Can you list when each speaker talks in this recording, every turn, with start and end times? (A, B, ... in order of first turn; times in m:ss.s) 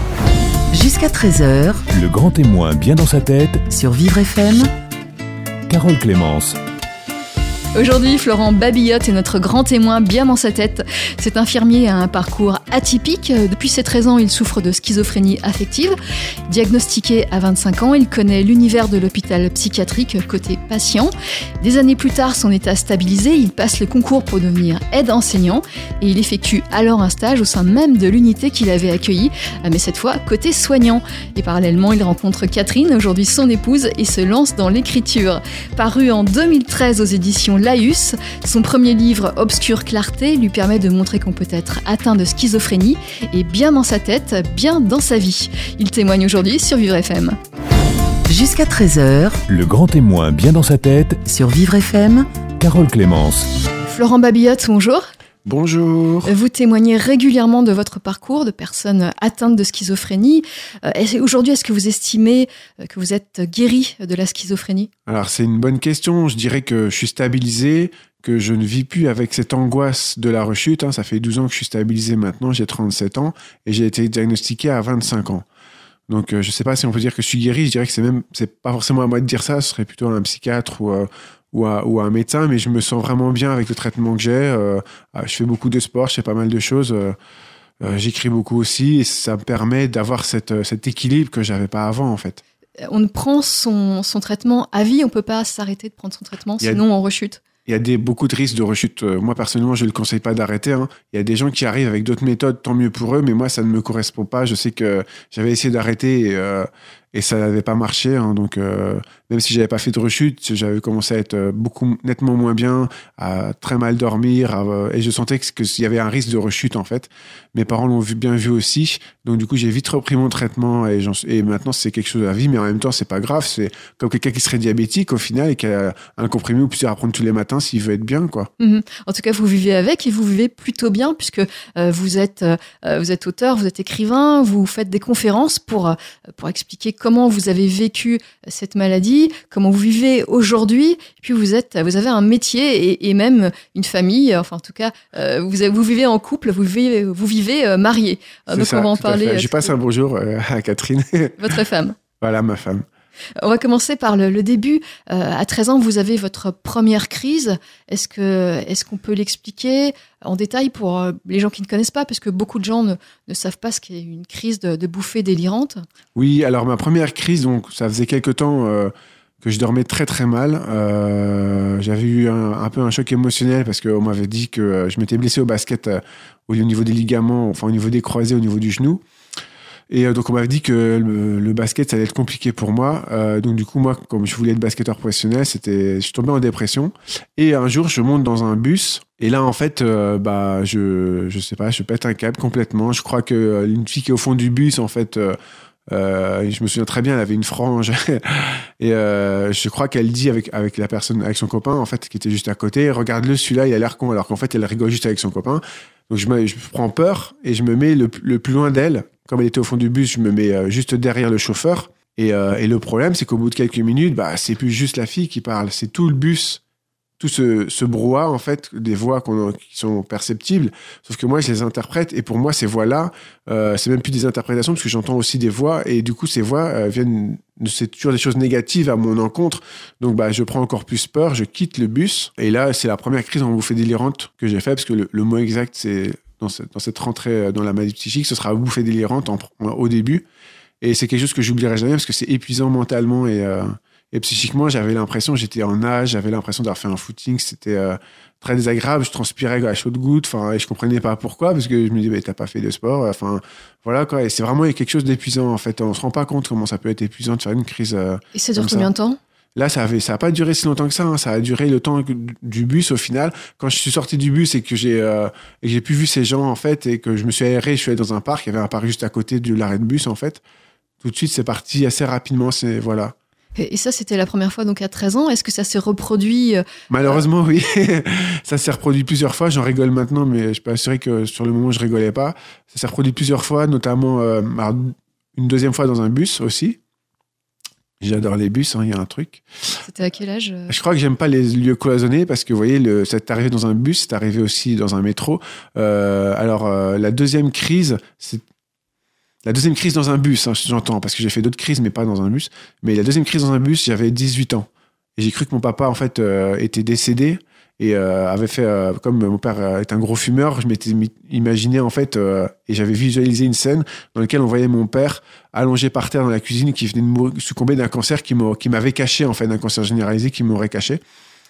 0:00.7-0:01.8 A
0:01.9-0:03.7 B
0:03.7-0:04.7 A
0:05.7-0:06.6 B
0:07.8-0:16.0 C
0:16.5-0:47.4 C
0:48.3-0:49.4 A
0:49.5-0:51.2 B
0:51.2-0:52.3 A
0:52.6-0:53.5 B
0:53.9-0:55.1 C
0:55.4-0:56.3 D
0:56.3-1:04.9 C
1:05.1-1:15.4 D
1:16.1-1:27.2 D
1:27.8-1:32.4 D
1:32.8-1:37.4 C
1:37.7-2:08.5 D
2:08.6-2:29.7 C
2:28.5-2:31.6 D
2:31.4-2:32.0 C
2:32.2-2:32.8 D
2:33.4-2:45.8 C
2:46.2-2:59.0 D
2:59.9-3:15.4 D
3:15.9-3:36.6 D
3:37.2-4:00.2 D
4:00.8-4:18.9 D
4:18.4-4:19.2 C
4:19.6-4:30.4 D
4:31.0-4:33.1 D
4:33.6-4:37.2 C
4:36.9-4:46.8 D
4:48.0-4:49.4 D
4:49.8-4:50.8 C
4:50.7-4:58.4 D
4:59.4-5:21.0 D